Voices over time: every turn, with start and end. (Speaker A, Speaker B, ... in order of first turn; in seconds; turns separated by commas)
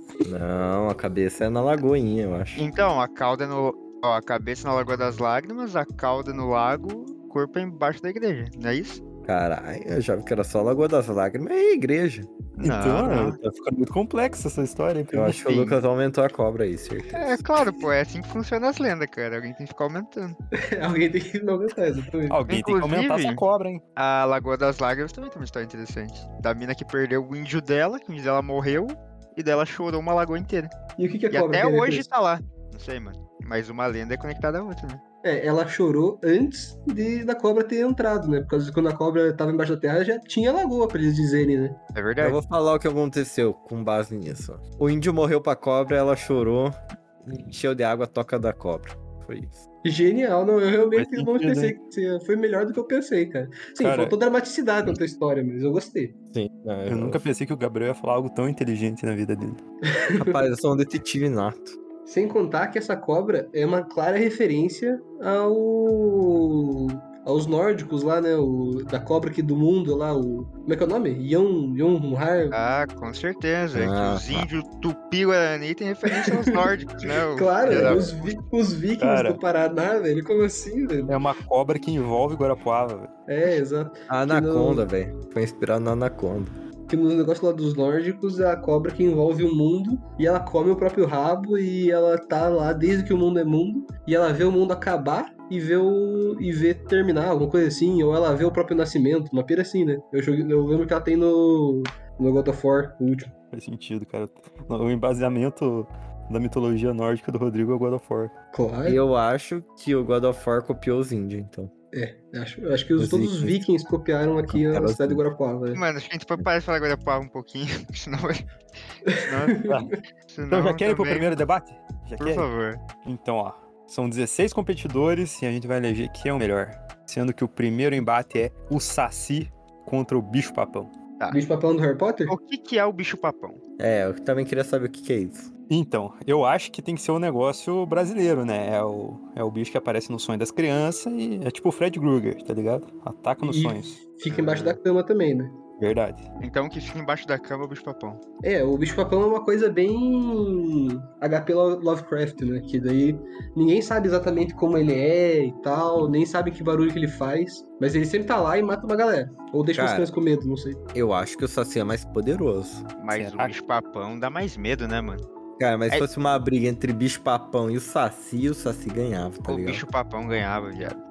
Speaker A: 0.2-2.6, Speaker B: 2.5-9.0, Speaker A: 9.2-12.3, Speaker B: 12.6-13.4, Speaker C: 12.6-15.5, Speaker A: 15.1-17.4, Speaker B: 15.5-15.7, Speaker B: 17.1-20.4, Speaker D: 20.5-22.4, Speaker C: 22.3-23.8, Speaker B: 22.5-23.4, Speaker B: 23.9-30.7, Speaker D: 31.0-32.1, Speaker B: 31.3-35.0, Speaker D: 35.2-41.8, Speaker B: 41.9-42.4, Speaker A: 42.2-49.6, Speaker D: 49.8-56.1, Speaker C: 51.0-51.7, Speaker C: 53.8-54.1, Speaker A: 56.3-57.2, Speaker C: 56.9-59.6, Speaker D: 59.9-60.4, Speaker A: 60.2-61.8, Speaker D: 62.0-72.6, Speaker B: 72.5-78.3, Speaker A: 73.7-74.5, Speaker D: 76.1-81.2, Speaker A: 77.7-78.1, Speaker C: 79.0-79.4, Speaker C: 81.1-83.1, Speaker D: 83.3-84.8, Speaker A: 84.1-86.5, Speaker D: 86.9-103.3, Speaker C: 103.5-108.3, Speaker D: 108.5-109.0, Speaker A: 108.8-111.7, Speaker D: 111.9-115.8, Speaker A: 113.0-113.5, Speaker A: 114.5-115.2, Speaker B: 115.7-118.4, Speaker D: 119.0-119.9, Speaker B: 119.2-119.7, Speaker B: 120.3-121.4, Speaker C: 120.5-122.5, Speaker B: 122.2-122.8, Speaker C: 123.0-130.9, Speaker D: 131.3-132.3, Speaker B: 132.3-133.6, Speaker A: 133.8-135.5, Speaker C: 135.7-144.0, Speaker D: 143.4-145.6, Speaker C: 145.8-146.3, Speaker B: 146.4-148.2, Speaker D: 148.4-160.8, Speaker A: 159.7-160.1, Speaker A: 160.9-162.8, Speaker B: 163.0-165.2, Speaker C: 163.1-163.6, Speaker A: 165.6-169.8, Speaker B: 169.4-171.0